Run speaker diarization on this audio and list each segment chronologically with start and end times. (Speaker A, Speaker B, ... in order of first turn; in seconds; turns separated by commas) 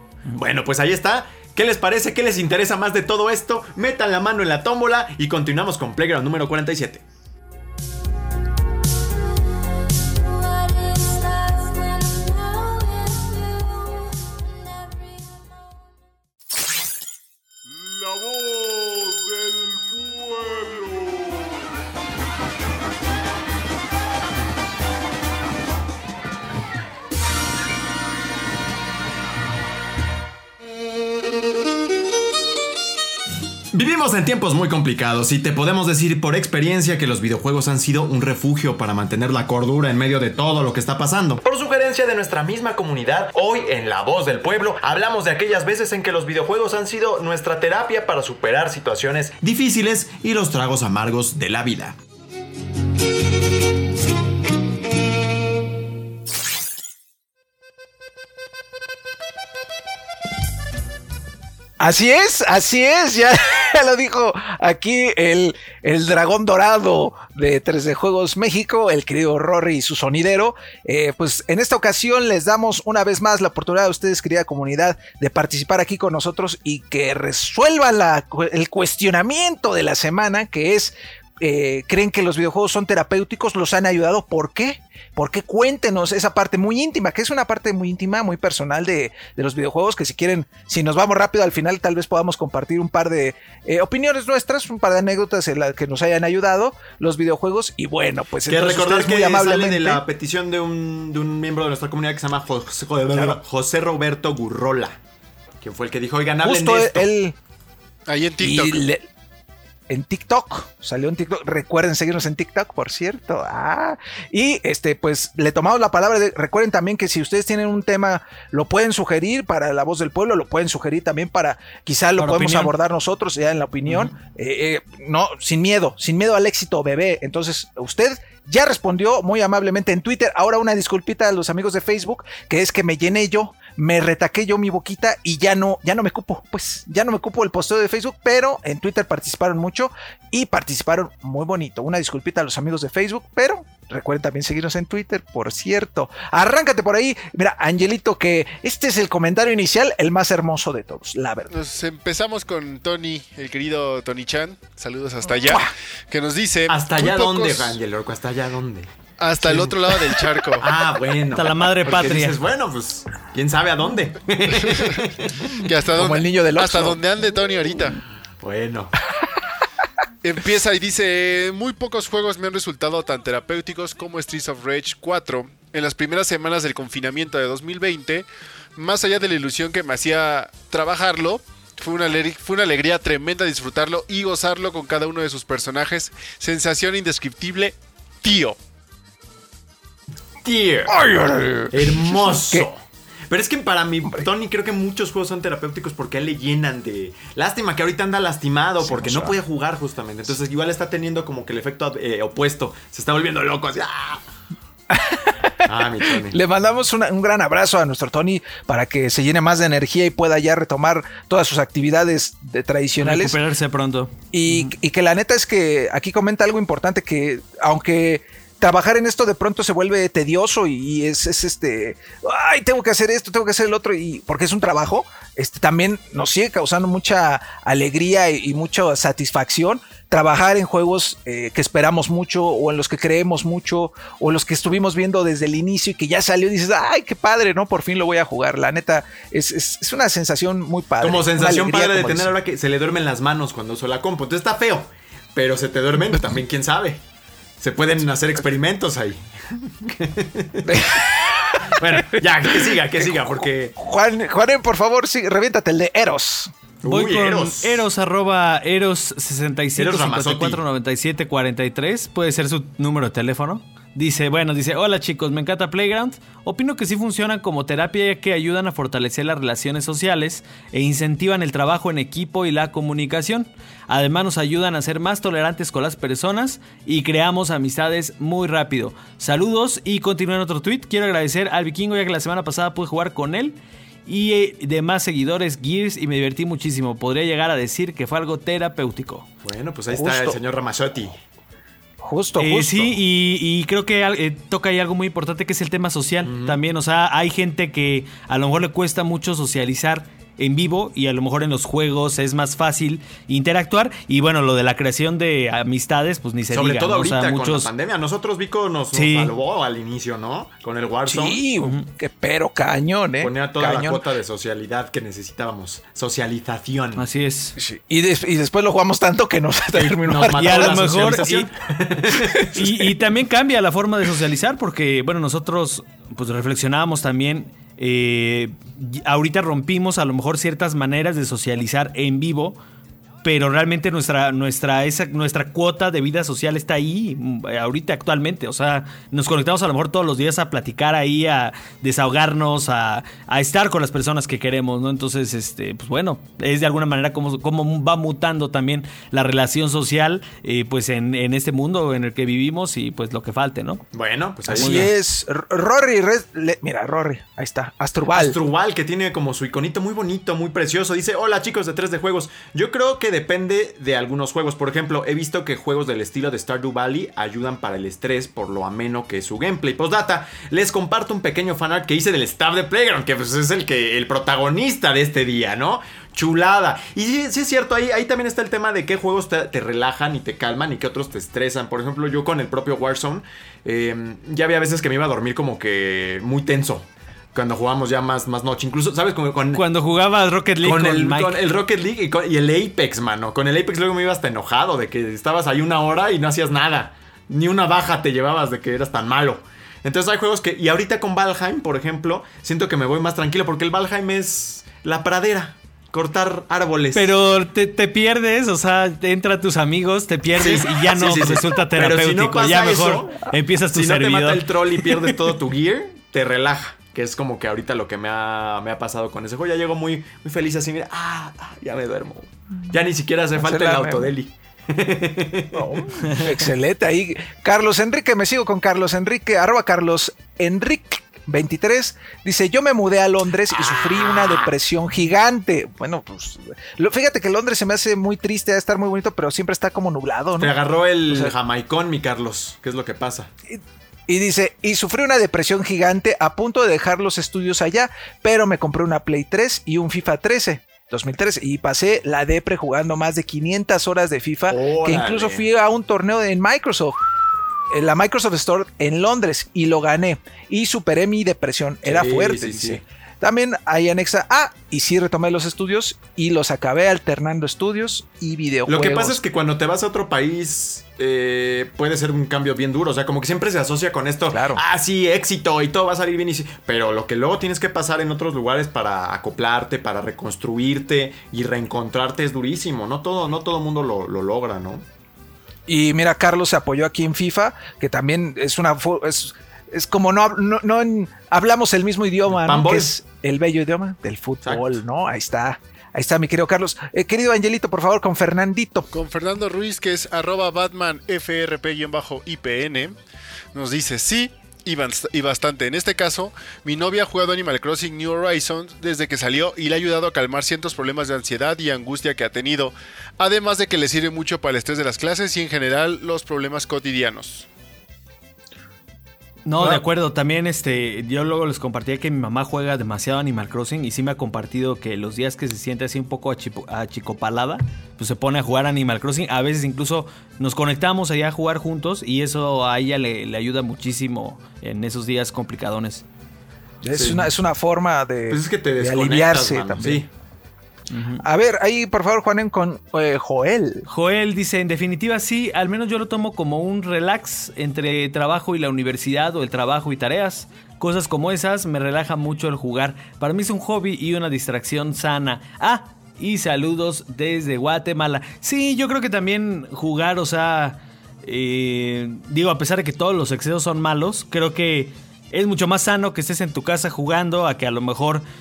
Speaker A: 0.3-7.0, Speaker A: 33.7-52.0, Speaker B: 61.8-100.0, Speaker A: 98.5-105.0, Speaker B: 103.1-103.4, Speaker A: 105.6-107.1, Speaker B: 106.4-107.4, Speaker C: 108.1-108.8, Speaker B: 108.4-109.1, Speaker B: 109.9-151.5, Speaker D: 122.2-122.7, Speaker D: 123.9-124.1, Speaker C: 151.5-157.8, Speaker B: 155.4-155.7, Speaker A: 156.7-158.9, Speaker C: 159.2-160.8, Speaker A: 159.4-159.8, Speaker A: 160.6-165.6, Speaker D: 161.3-162.4, Speaker C: 165.6-168.0, Speaker B: 165.9-167.0, Speaker A: 168.4-168.9, Speaker C: 170.2-178.2, Speaker C: 178.8-188.6, Speaker A: 190.4-191.1, Speaker B: 190.9-192.7, Speaker A: 191.7-204.2, Speaker B: 198.8-199.4, Speaker B: 204.9-213.4, Speaker A: 205.7-206.4, Speaker D: 213.0-214.7, Speaker B: 214.3-242.3, Speaker A: 241.0-247.0, Speaker A: 247.6-251.1, Speaker B: 250.6-256.5, Speaker A: 251.6-253.8, Speaker A: 256.8-257.8, Speaker D: 256.9-289.3, Speaker A: 259.8-260.6, Speaker A: 289.4-291.2, Speaker B: 289.9-290.4, Speaker B: 292.0-292.9, Speaker D: 292.4-307.7, Speaker A: 296.2-296.6, Speaker A: 306.5-311.4, Speaker D: 308.9-309.3, Speaker B: 311.1-314.1, Speaker D: 311.6-311.9, Speaker A: 313.2-317.0, Speaker D: 317.0-317.6, Speaker B: 317.6-321.2, Speaker A: 319.7-322.6, Speaker D: 320.4-321.5, Speaker B: 322.1-322.7, Speaker D: 322.5-332.6, Speaker D: 333.2-353.9, Speaker A: 353.9-354.9, Speaker D: 354.5-354.9, Speaker B: 354.5-358.4, Speaker A: 358.1-389.6, Speaker D: 389.5-391.4, Speaker A: 390.6-407.1, Speaker D: 406.9-415.1, Speaker A: 410.4-426.3, Speaker B: 423.4-424.1, Speaker B: 425.5-440.5, Speaker A: 440.4-443.3, Speaker B: 441.1-441.3, Speaker B: 443.5-457.0, Speaker A: 454.5-455.4, Speaker B: 457.7-469.2, Speaker A: 461.9-462.8, Speaker A: 468.7-484.9, Speaker B: 474.3-474.6, Speaker B: 485.7-498.9, Speaker A: 492.3-492.9, Speaker C: 498.9-503.0, Speaker C: 503.5-517.5, Speaker D: 519.5-536.0, Speaker B: 536.8-540.1, Speaker A: 536.9-537.3, Speaker A: 538.3-540.1, Speaker D: 540.9-541.2, Speaker B: 541.2-543.9, Speaker D: 543.9-568.2